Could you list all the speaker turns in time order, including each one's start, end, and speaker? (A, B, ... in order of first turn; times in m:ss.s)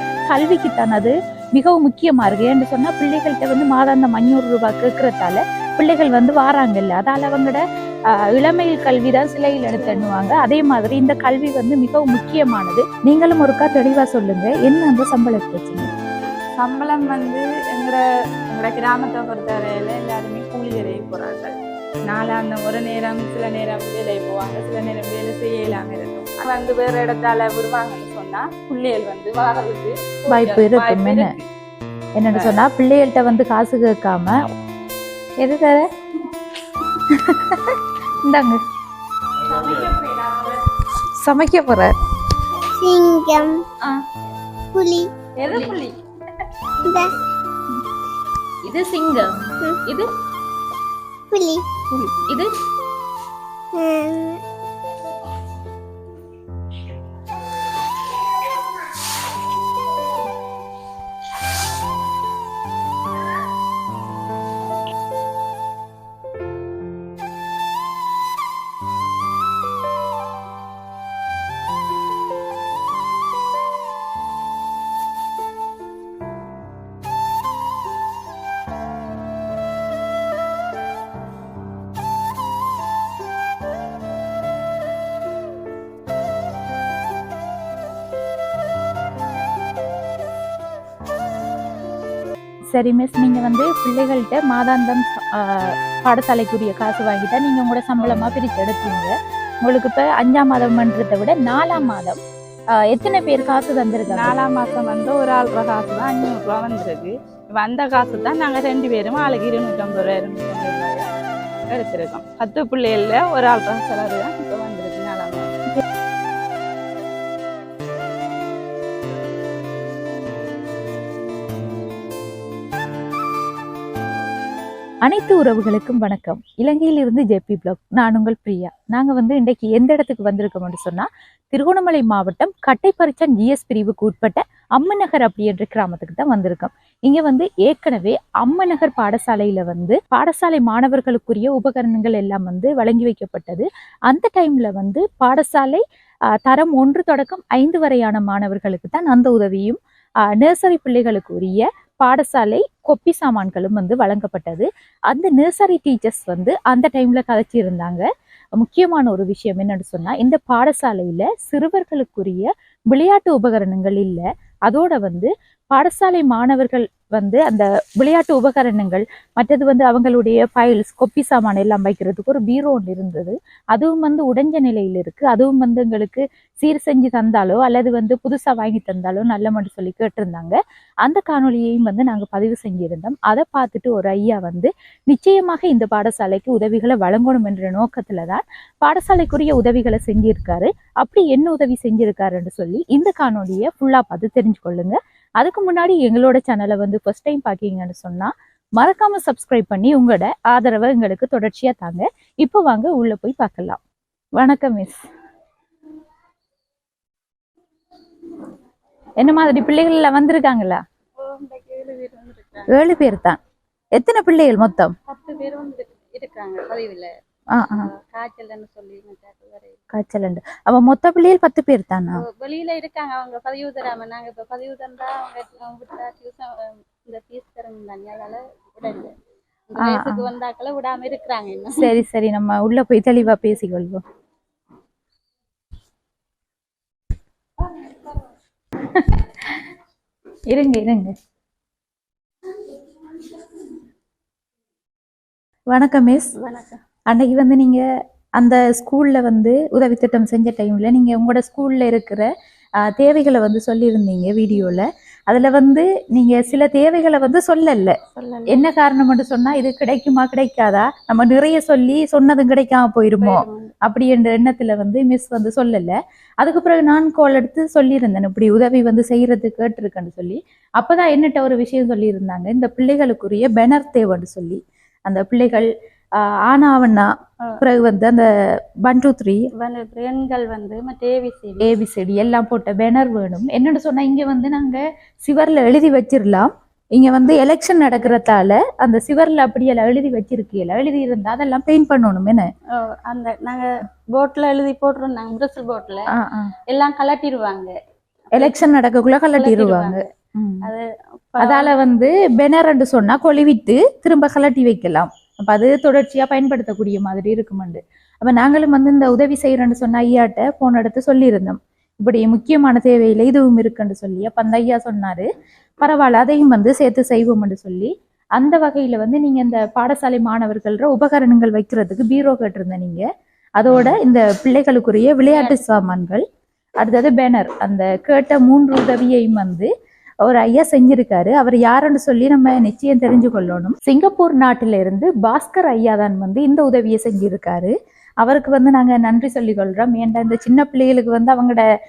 0:00.3-0:07.6 A
0:08.3-0:15.9 A
0:09.7-0:10.1 B
0:16.6-0:21.5 B
0:22.1-0:31.4 B
0:30.3-0:31.3 A
0:32.2-0:34.4 A
0:32.3-0:32.6 B
0:35.4-0:35.8 A
0:37.0-0:38.6 A
0:39.5-0:40.6 C
0:41.2-0:41.9 A
0:42.5-0:43.6 D
0:44.7-0:45.1 D
0:45.4-0:46.0 B
0:46.8-0:47.1 D
0:48.6-0:50.1 A
0:51.3-0:51.7 D
0:52.2-0:52.5 A
0:53.7-0:54.4 D
1:32.7-1:39.1 A
1:38.0-1:38.3 B
1:39.6-1:42.2 A
1:42.8-1:44.3 A
1:44.1-1:51.1 B
1:51.7-1:55.5 B
2:05.0-2:25.8 A
2:26.4-2:29.8 A
2:30.3-2:38.0 A
2:38.6-3:23.8 A
3:24.4-3:25.0 A
3:29.2-3:30.8 A
3:31.2-3:32.7 C
3:32.7-3:33.4 A
3:34.0-3:34.9 A
3:35.1-3:37.1 C
3:37.5-3:37.9 A
3:38.0-3:39.8 C
3:39.9-3:42.2 A
3:42.2-3:49.1 C
3:49.7-3:52.0 C
3:49.8-3:50.3 A
3:51.7-3:54.0 A
3:57.6-3:58.2 B
3:58.8-3:59.6 A
4:00.5-4:01.1 A
4:05.7-4:06.3 A
4:06.4-4:06.8 B
4:07.1-4:07.8 A
4:08.4-4:12.2 A
4:12.8-4:18.0 A
4:18.1-4:18.6 C
4:18.5-4:35.7 A
4:23.3-4:23.7 C
4:36.4-4:37.1 A
4:37.6-4:38.3 A
4:38.8-4:39.4 A
4:39.6-4:41.7 C
4:41.6-4:52.5 A
4:52.8-4:56.1 C
4:56.1-4:56.5 A
4:56.7-4:57.7 C
4:58.3-5:00.6 A
4:59.3-5:00.0 C
4:59.5-4:59.8 B
5:00.6-5:01.4 C
5:01.4-5:15.3 A
5:01.4-5:01.8 B
5:15.8-5:23.0 A
5:23.6-5:26.2 A
5:25.3-5:25.8 B
5:26.8-5:29.7 A
5:30.2-5:41.6 A